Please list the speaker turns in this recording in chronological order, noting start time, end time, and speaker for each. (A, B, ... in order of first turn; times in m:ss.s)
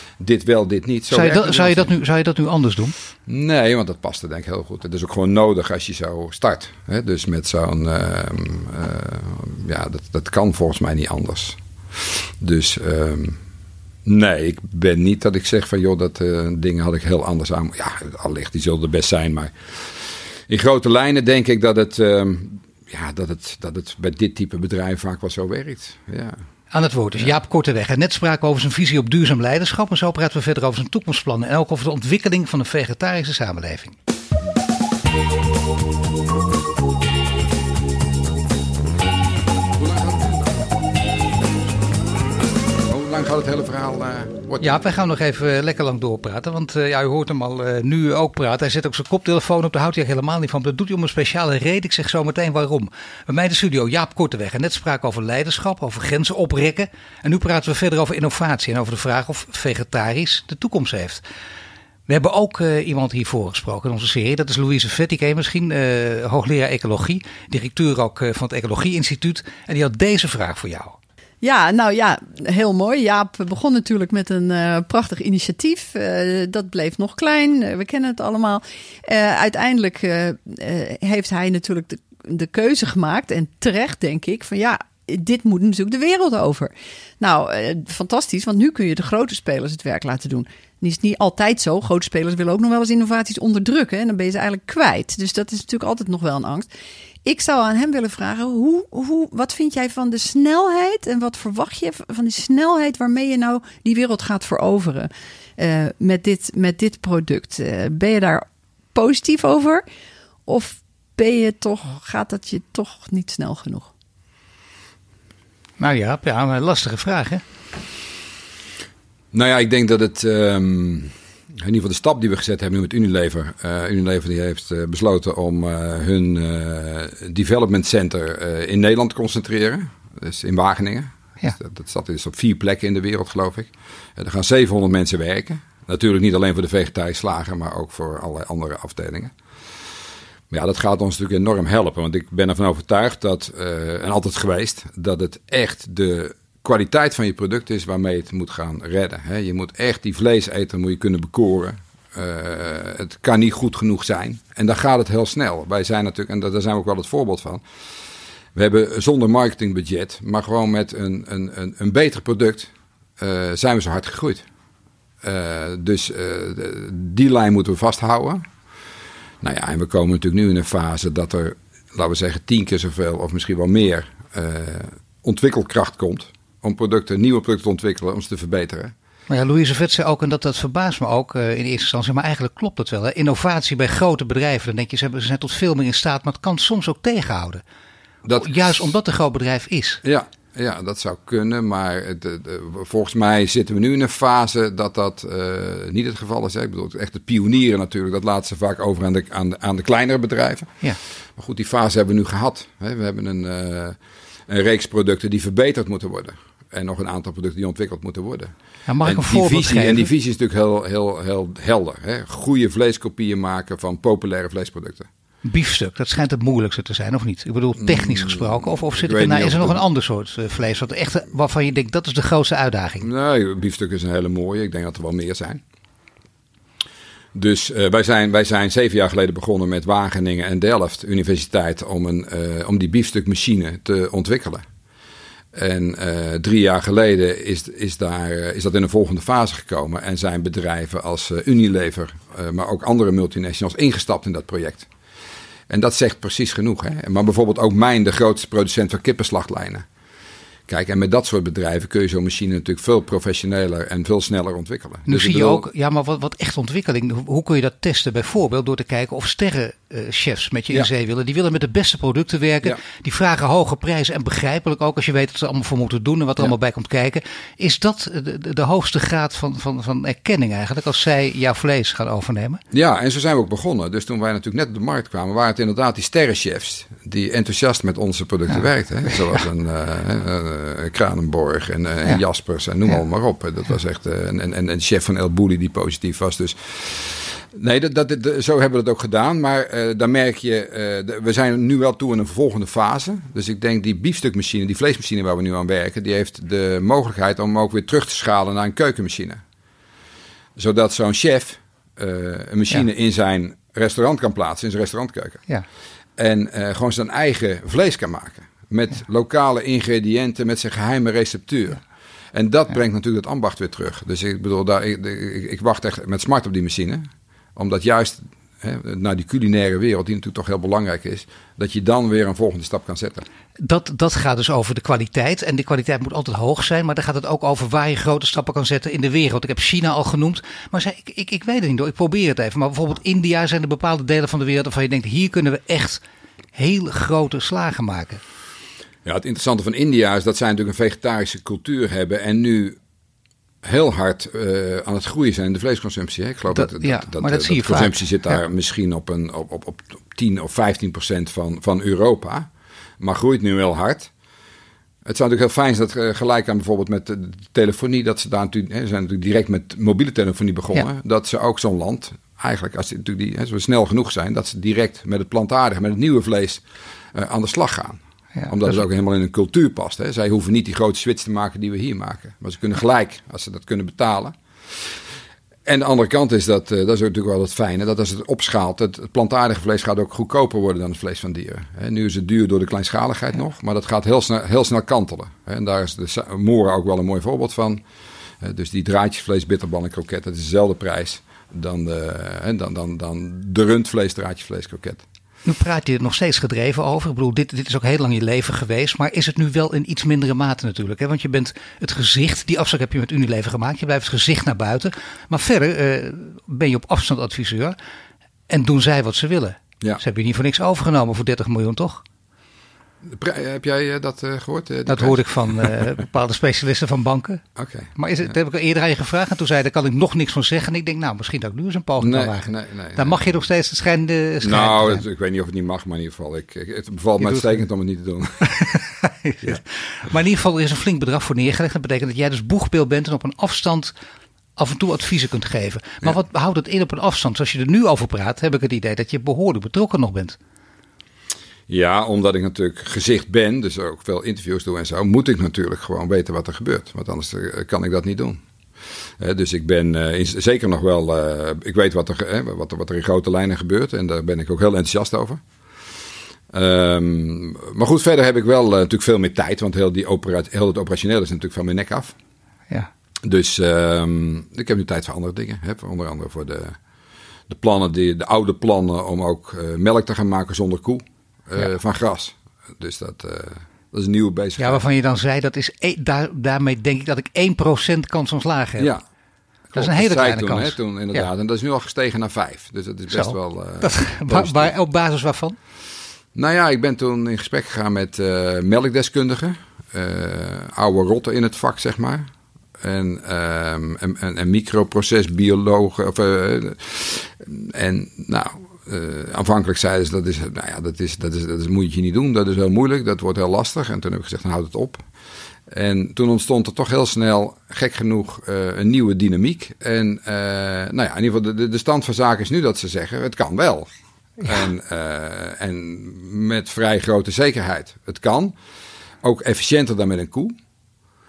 0:00.2-0:01.9 A
0:01.1-0:02.9 B
0:03.3-0:13.4 A
0:14.0-0:26.4 A
0:26.7-0:34.0 B
0:39.8-0:40.8 A
0:42.9-0:44.8 A
0:44.6-1:01.2 B
1:02.1-1:11.0 B
1:11.4-1:36.7 C
1:37.2-1:49.8 C
1:50.4-1:53.9 C
1:55.8-1:57.4 B
1:59.3-2:19.3 A
2:20.5-2:37.6 A
2:38.5-2:44.4 A
2:45.2-2:48.4 A
2:49.4-2:58.9 A
2:59.3-3:07.6 B
3:08.2-3:08.9 A
3:08.4-3:10.0 B
3:10.0-3:20.8 A
3:21.4-3:35.1 A
3:28.9-3:30.1 B
3:35.4-3:43.1 B
3:37.8-3:39.8 A
3:43.0-3:45.6 A
3:47.3-3:54.6 A
3:55.5-4:04.9 A
4:05.7-4:09.8 A
4:10.7-4:15.6 A
4:15.1-4:32.6 B
4:32.7-4:59.4 A
5:00.6-5:05.4 A
5:06.2-5:23.2 A
5:23.6-5:36.0 B
5:36.5-5:38.2 B
5:39.0-5:42.8 A
5:43.6-5:52.5 A
5:46.5-5:48.0 B
5:53.0-5:54.1 A
5:55.0-6:06.6 A
6:07.1-6:15.0 A
6:15.6-6:27.8 A
6:28.4-6:35.0 A
6:35.4-6:47.8 B
6:48.5-6:52.0 B
6:53.0-6:55.9 A
6:54.9-6:57.4 B
6:57.6-6:58.3 A
6:58.0-7:05.0 B
7:02.0-7:03.2 A
7:04.4-7:08.5 A
7:07.2-7:07.6 B
7:08.5-7:13.9 B
7:14.6-7:20.4 B
7:21.7-7:28.4 A
7:29.2-7:35.4 A
7:36.5-7:42.1 A
7:43.2-7:46.8 A
7:47.5-7:54.8 A
7:54.6-7:58.9 B
7:59.7-8:04.7 A
7:59.8-8:01.3 B
8:03.1-8:05.6 B
8:06.4-8:12.3 A
8:12.8-8:25.0 A
8:25.7-8:33.9 A
8:34.4-8:38.5 A
8:39.2-8:40.6 A